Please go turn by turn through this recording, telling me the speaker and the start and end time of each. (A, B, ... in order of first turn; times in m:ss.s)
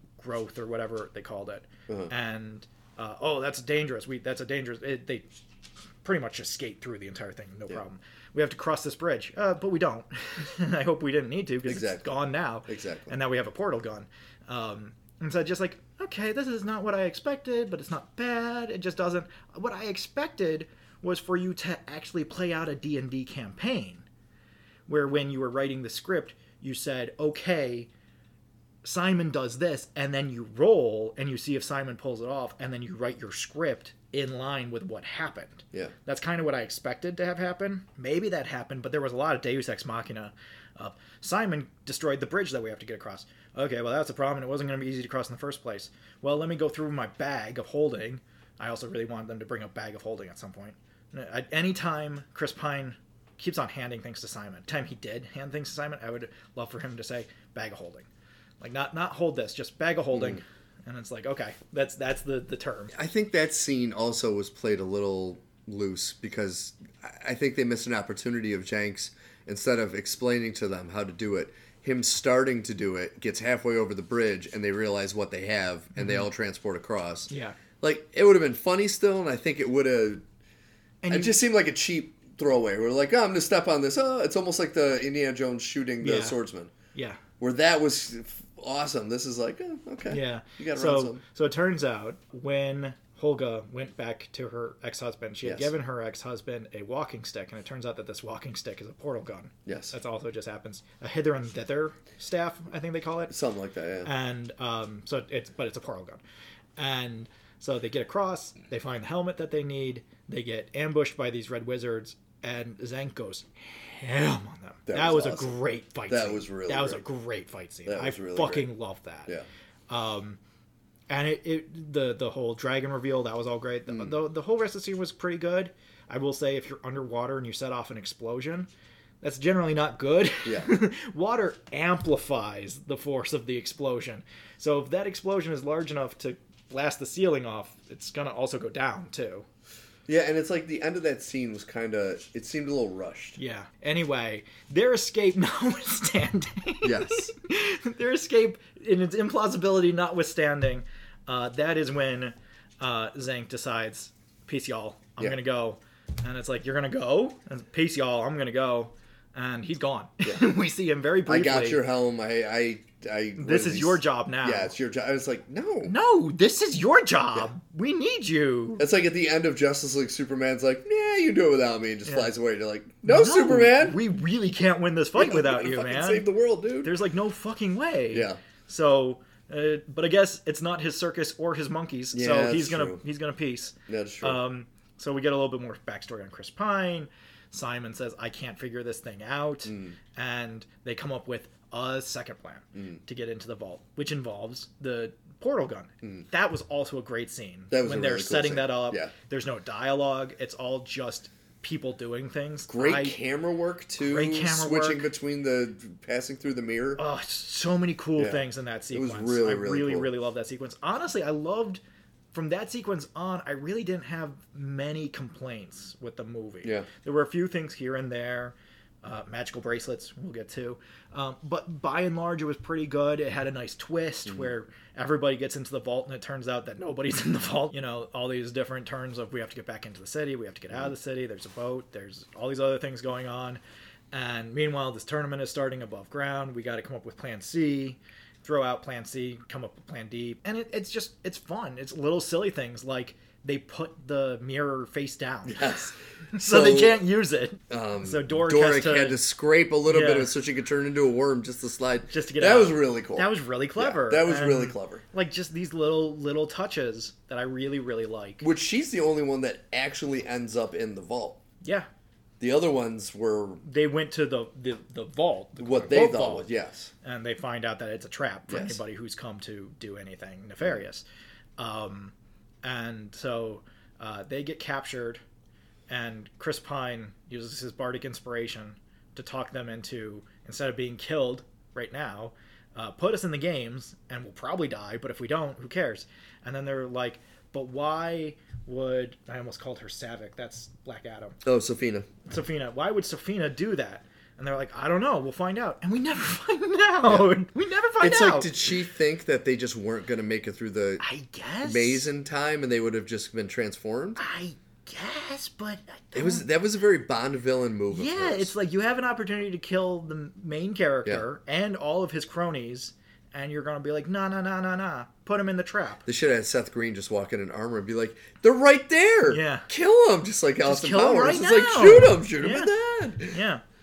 0:00.2-0:05.3 A
0:06.0-0:24.1 A
0:11.7-0:13.2 B
0:24.9-0:27.9 A
0:28.8-0:58.1 A
0:58.6-1:03.0 A
1:00.1-1:00.4 B
1:02.9-1:17.3 B
1:16.0-1:16.3 A
1:17.3-1:17.6 A
1:17.8-1:20.2 B
1:21.0-1:21.3 A
1:21.1-1:26.7 B
1:26.0-1:26.4 A
1:26.9-1:27.2 A
1:27.4-1:31.2 B
1:30.1-1:43.3 A
1:35.4-1:35.7 B
1:39.7-1:40.0 B
1:43.3-1:44.1 B
1:44.0-1:46.2 A
1:46.8-1:59.3 A
1:54.9-1:55.6 B
1:56.1-1:57.0 B
1:57.9-1:58.7 B
1:59.9-2:00.4 A
2:01.1-2:08.7 A
2:03.9-2:04.2 B
2:09.2-2:19.5 A
2:10.4-2:10.7 B
2:20.1-2:23.4 B
2:23.4-2:41.8 A
2:26.8-2:27.3 B
2:41.3-2:45.9 B
2:43.4-2:44.7 A
2:45.8-2:48.9 A
2:48.8-2:54.0 B
2:53.0-2:56.3 A
2:55.2-2:56.9 B
2:56.8-3:23.2 A
2:58.1-2:58.4 B
3:02.1-3:03.0 B
3:03.9-3:04.4 B
3:09.7-3:10.0 B
3:12.8-3:13.0 B
3:17.7-3:19.1 B
3:22.7-3:27.0 B
3:24.0-3:25.1 A
3:27.0-3:31.8 A
3:28.2-3:30.1 B
3:32.3-3:53.6 A
3:54.1-4:09.2 A
4:05.4-4:07.0 B
4:07.7-4:15.0 B
4:09.9-4:10.3 A
4:12.1-4:18.5 A
4:18.4-4:21.4 B
4:21.6-4:21.9 A
4:22.4-4:23.6 B
4:23.6-4:26.5 A
4:25.6-4:26.9 B
4:27.0-4:31.0 A
4:28.5-4:28.8 B
4:31.6-4:35.2 A
4:35.9-4:51.4 A
4:51.4-4:52.1 B
4:52.3-4:58.7 A
4:58.0-5:01.0 B
5:01.0-5:02.1 A
5:01.6-5:04.2 B
5:04.2-5:06.4 A
5:06.1-5:08.5 B
5:07.9-5:16.0 A
5:16.1-5:23.4 B
5:19.3-5:19.7 A
5:20.6-5:22.7 A
5:23.3-5:23.6 A